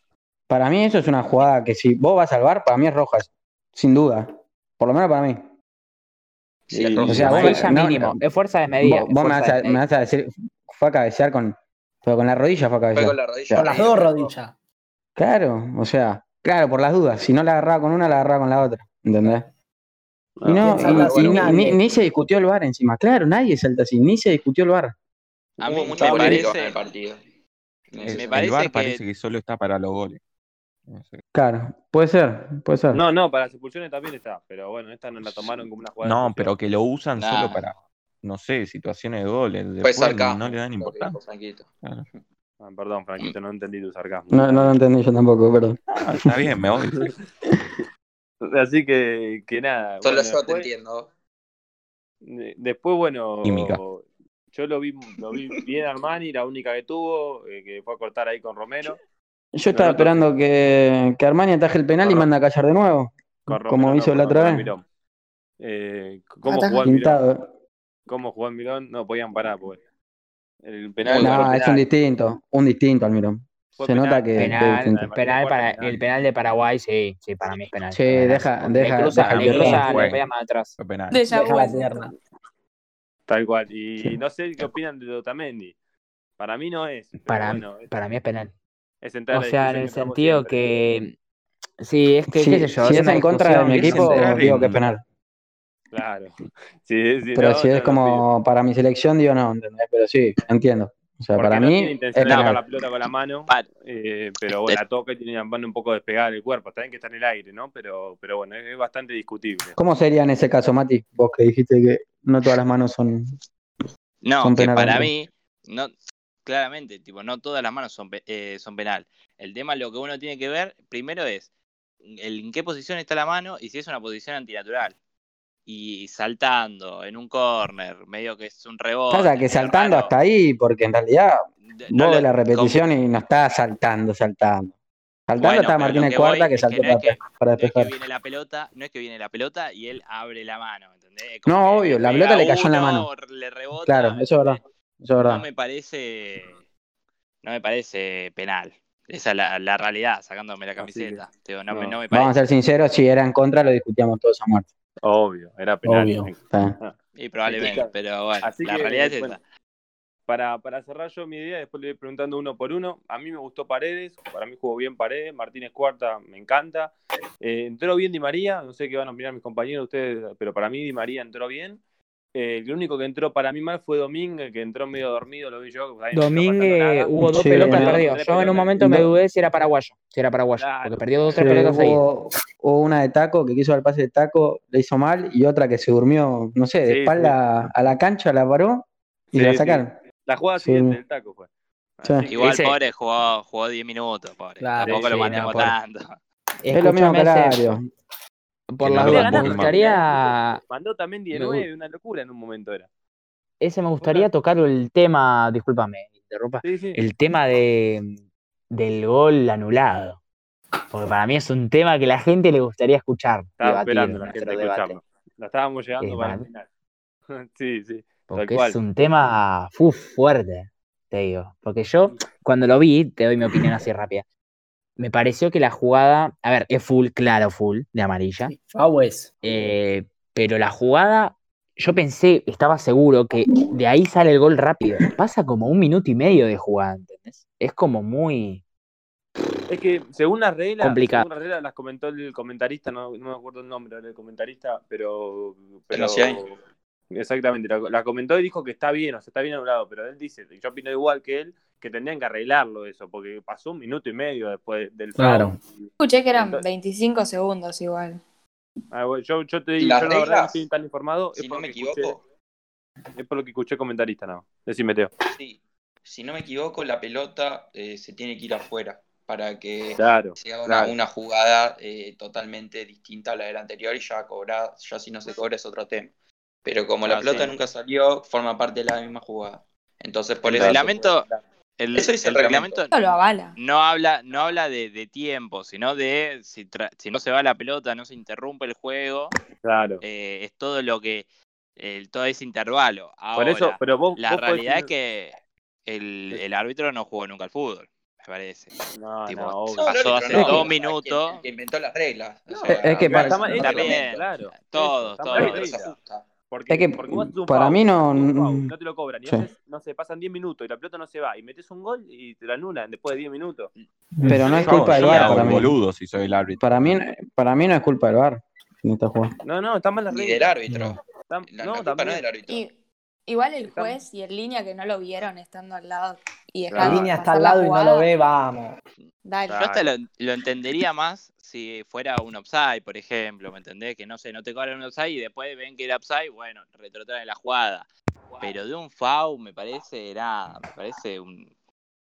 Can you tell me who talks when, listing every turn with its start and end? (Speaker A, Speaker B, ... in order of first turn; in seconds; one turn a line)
Speaker A: 0.5-5.5
Speaker B: 6.7-7.7
Speaker C: 6.7-7.7
Speaker A: 7.1-8.2
Speaker D: 7.1-9.8
Speaker A: 8.8-13.7
Speaker B: 12.9-14.3
Speaker E: 13.5-14.5
Speaker A: 15.2-19.4
Speaker F: 20.4-20.9
Speaker A: 20.5-24.9
Speaker E: 20.6-21.8
Speaker B: 20.8-21.7
Speaker G: 25.6-26.8
Speaker B: 25.6-27.2
Speaker F: 25.8-26.5
Speaker B: 27.9-28.5
Speaker C: 28.0-30.2
Speaker G: 28.1-29.0
Speaker C: 30.9-31.2
Speaker A: 31.3-33.0
Speaker F: 32.9-36.5
Speaker C: 35.2-41.2
Speaker G: 37.2-37.6
Speaker B: 39.8-42.2
Speaker F: 42.6-44.8
Speaker A: 44.3-46.2
Speaker C: 46.0-47.1
Speaker F: 48.4-50.7
Speaker B: 50.0-51.1
Speaker F: 52.2-59.0
Speaker C: 53.5-53.8
Speaker A: 59.5-64.7
Speaker F: 59.7-60.2
Speaker F: 62.0-62.3
Speaker F: 63.5-64.8
Speaker F: 65.6-67.2
Speaker H: 66.4-66.9
Speaker A: 66.8-67.5
Speaker F: 68.1-69.8
Speaker F: 70.6-71.9
Speaker B: 71.0-71.7
Speaker A: 71.2-75.0
Speaker F: 73.8-76.0
Speaker D: 74.3-80.8
Speaker A: 77.9-79.9
Speaker C: 79.0-80.3
Speaker C: 80.8-81.2
Speaker H: 81.1-82.0
Speaker E: 81.3-82.1
Speaker F: 83.3-85.8
Speaker F: 86.4-87.9
Speaker D: 87.2-88.5
Speaker F: 89.0-90.6
Speaker D: 89.3-91.2
Speaker D: 91.8-94.6
Speaker A: 92.3-95.0
Speaker C: 92.8-94.8
Speaker F: 95.9-98.2
Speaker A: 97.3-102.6
Speaker F: 101.4-109.8
Speaker G: 102.2-102.6
Speaker G: 104.5-104.8
Speaker A: 109.8-113.4
Speaker G: 114.2-115.9
Speaker A: 114.4-115.1
Speaker G: 116.5-121.5
Speaker G: 122.1-125.0
Speaker G: 125.7-130.1
Speaker A: 129.1-134.7
Speaker G: 131.7-132.8
Speaker A: 135.3-137.9
Speaker G: 135.4-144.6
Speaker A: 141.5-143.1
Speaker A: 143.8-145.5
Speaker G: 145.2-146.6
Speaker G: 147.4-152.3
Speaker F: 150.8-152.0
Speaker A: 152.1-154.7
Speaker F: 155.0-159.4
Speaker A: 155.9-156.8
Speaker G: 157.2-159.4
Speaker F: 160.3-171.8
Speaker F: 172.3-179.1
Speaker D: 176.1-182.1
Speaker A: 177.2-178.1
Speaker F: 180.6-181.9
Speaker A: 181.3-190.0
Speaker F: 186.8-187.4
Speaker F: 189.3-192.7
Speaker A: 190.6-191.0
Speaker A: 192.0-192.3
Speaker G: 192.3-196.2
Speaker D: 194.6-195.8
Speaker F: 194.8-195.7
Speaker D: 196.6-197.6
Speaker A: 196.7-197.8
Speaker D: 198.7-200.6
Speaker C: 198.8-199.8
Speaker F: 199.0-202.9
Speaker D: 201.3-201.7
Speaker D: 203.6-210.2
Speaker F: 204.0-204.3
Speaker F: 206.6-207.0
Speaker D: 210.9-215.0
Speaker F: 213.6-216.7
Speaker D: 216.0-216.5
Speaker F: 217.3-218.8
Speaker D: 218.3-224.2
Speaker D: 225.0-228.5
Speaker E: 228.4-229.4
Speaker D: 229.4-238.6
Speaker F: 239.7-246.6
Speaker D: 240.8-241.3
Speaker B: 245.9-246.4
Speaker F: 247.1-256.6
Speaker E: 255.2-255.6
Speaker H: 256.0-258.2
Speaker F: 258.9-262.2
Speaker B: 259.8-260.6
Speaker B: 261.4-262.2
Speaker F: 263.1-265.1
Speaker B: 265.3-281.4
Speaker F: 270.0-270.9
Speaker G: 277.1-277.5
Speaker F: 277.1-277.5
Speaker G: 280.4-281.3
Speaker F: 280.5-280.9
Speaker G: 281.8-282.9
Speaker B: 281.9-282.9
Speaker H: 282.9-283.6
Speaker G: 283.6-289.3
Speaker F: 289.6-290.0
Speaker G: 290.0-291.3
Speaker G: 291.8-295.4
Speaker F: 293.4-294.9
Speaker G: 295.9-298.7
Speaker F: 298.9-300.7
Speaker G: 299.3-301.4
Speaker B: 299.8-304.3
Speaker F: 302.5-306.0
Speaker D: 302.8-303.6
Speaker G: 303.6-305.7
Speaker B: 305.3-306.3
Speaker F: 306.5-313.7
Speaker A: 306.7-308.7
Speaker E: 314.2-314.4
Speaker A: 314.3-315.7
Speaker B: 314.4-315.6
Speaker C: 314.4-317.0
Speaker F: 315.2-315.6
Speaker A: 316.6-319.4
Speaker F: 319.4-320.6
Speaker B: 320.1-322.6
Speaker F: 321.3-322.4
Speaker H: 322.5-322.8
Speaker H: 323.3-328.1
Speaker F: 323.6-324.0
Speaker F: 326.7-327.1
Speaker E: 326.8-328.8
Speaker H: 329.2-329.6
Speaker F: 329.5-329.8
Speaker G: 329.5-337.9
Speaker G: 338.4-341.5